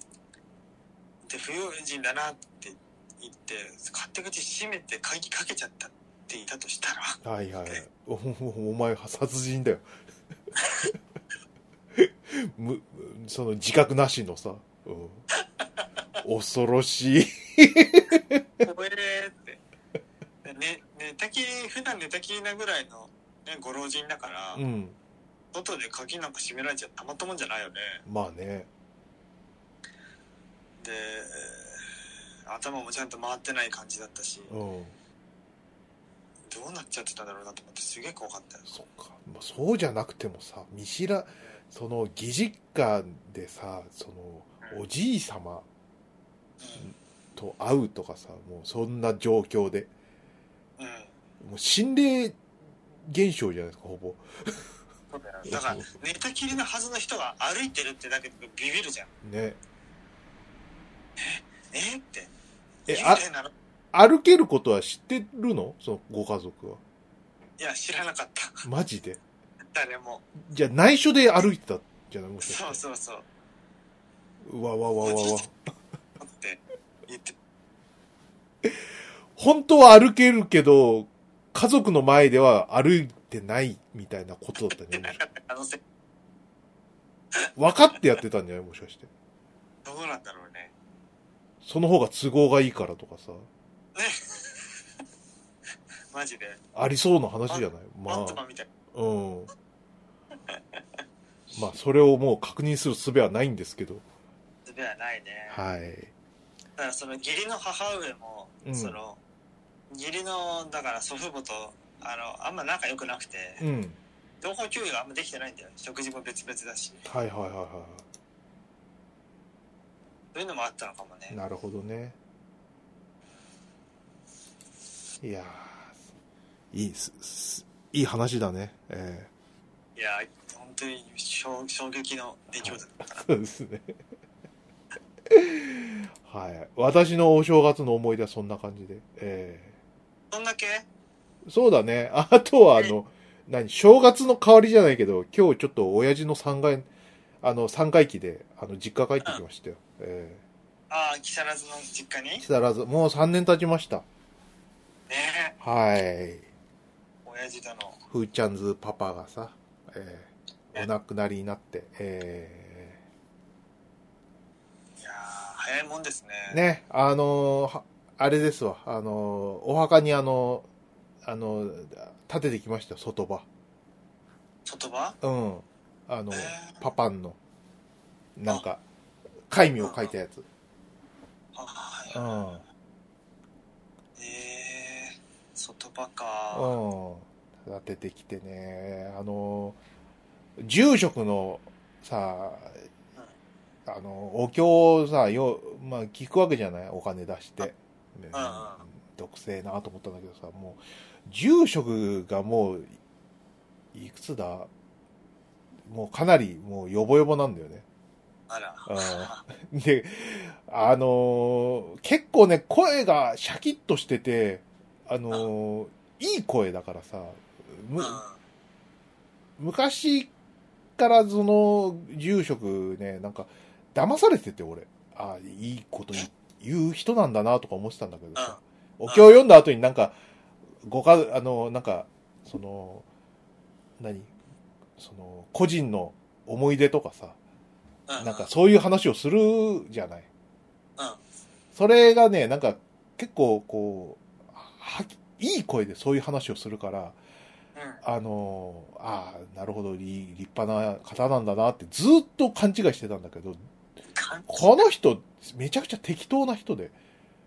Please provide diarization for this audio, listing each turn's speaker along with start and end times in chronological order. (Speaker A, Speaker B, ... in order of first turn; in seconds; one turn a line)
Speaker A: 1.2-7.8
Speaker B: 7.2-9.8
Speaker A: 10.6-10.9
Speaker B: 11.9-15.2
Speaker A: 15.3-15.8
Speaker B: 16.2-18.4
Speaker A: 18.6-19.6
Speaker A: 20.4-24.6
Speaker B: 24.5-24.9
Speaker A: 25.5-28.0
Speaker B: 28.1-28.7
Speaker A: 30.8-31.9
Speaker A: 32.5-34.5
Speaker B: 34.5-34.9
Speaker A: 36.5-38.7
Speaker B: 38.7-45.6
Speaker A: 46.6-46.9
Speaker B: 46.8-49.9
Speaker A: 50.8-51.1
Speaker B: 51.4-52.4
Speaker B: 53.0-54.6
Speaker A: 55.1-59.1
Speaker B: 55.5-55.9
Speaker B: 59.2-59.6
Speaker A: 61.2-62.3
Speaker A: 62.9-63.5
Speaker B: 62.9-63.2
Speaker B: 63.9-66.8
Speaker A: 67.6-68.6
Speaker B: 68.6-69.2
Speaker A: 69.7-70.2
Speaker B: 70.4-72.8
Speaker A: 72.4-73.2
Speaker B: 74.4-75.5
Speaker A: 75.0-75.5
Speaker A: 76.2-77.3
Speaker B: 79.4-85.2
Speaker A: 84.9-85.8
Speaker B: 87.5-89.1
Speaker A: 89.8-90.7
Speaker B: 91.6-93.5
Speaker A: 93.9-94.7
Speaker A: 96.1-96.6
Speaker B: 96.7-98.4
Speaker A: 97.5-98.7
Speaker B: 98.9-99.5
Speaker A: 100.5-100.8
Speaker B: 101.5-104.0
Speaker A: 104.7-105.6
Speaker B: 105.5-106.1
Speaker A: 106.8-109.2
Speaker B: 108.6-109.0
Speaker A: 109.9-113.6
Speaker B: 113.6-114.0
Speaker A: 114.4-117.0
Speaker B: 117.0-118.0
Speaker A: 120.3-121.4
Speaker B: 121.3-122.2
Speaker B: 125.2-125.9
Speaker B: 126.7-129.3
Speaker A: 129.9-133.3
Speaker B: 132.6-134.0
Speaker B: 135.3-139.7
Speaker A: 140.3-140.8
Speaker B: 141.4-146.9
Speaker B: 147.4-150.4
Speaker A: 150.9-152.4
Speaker B: 152.4-154.0
Speaker A: 155.1-155.6
Speaker B: 155.6-156.4
Speaker A: 157.2-158.0
Speaker B: 158.1-163.0
Speaker A: 165.0-166.6
Speaker B: 166.5-170.7
Speaker B: 171.2-173.4
Speaker A: 174.7-175.2
Speaker B: 175.2-177.4
Speaker A: 176.3-176.8
Speaker B: 178.4-178.8
Speaker B: 179.5-180.4
Speaker A: 179.8-180.1
Speaker A: 181.5-182.4
Speaker B: 182.1-182.6
Speaker A: 184.2-186.8
Speaker B: 186.5-189.8
Speaker B: 190.6-192.8
Speaker B: 193.8-202.9
Speaker A: 198.3-198.8
Speaker B: 203.9-204.7
Speaker B: 205.9-207.8
Speaker A: 208.5-209.4
Speaker B: 208.8-218.2
Speaker A: 218.0-218.4
Speaker B: 219.6-220.3
Speaker B: 221.0-230.1
Speaker A: 228.3-229.4
Speaker B: 230.8-233.1
Speaker B: 234.0-234.3
Speaker B: 235.0-237.4
Speaker A: 238.1-238.5
Speaker B: 238.2-240.3
Speaker B: 241.7-247.2
Speaker A: 247.7-248.0
Speaker B: 248.0-253.6
Speaker A: 254.1-254.9
Speaker B: 254.5-256.9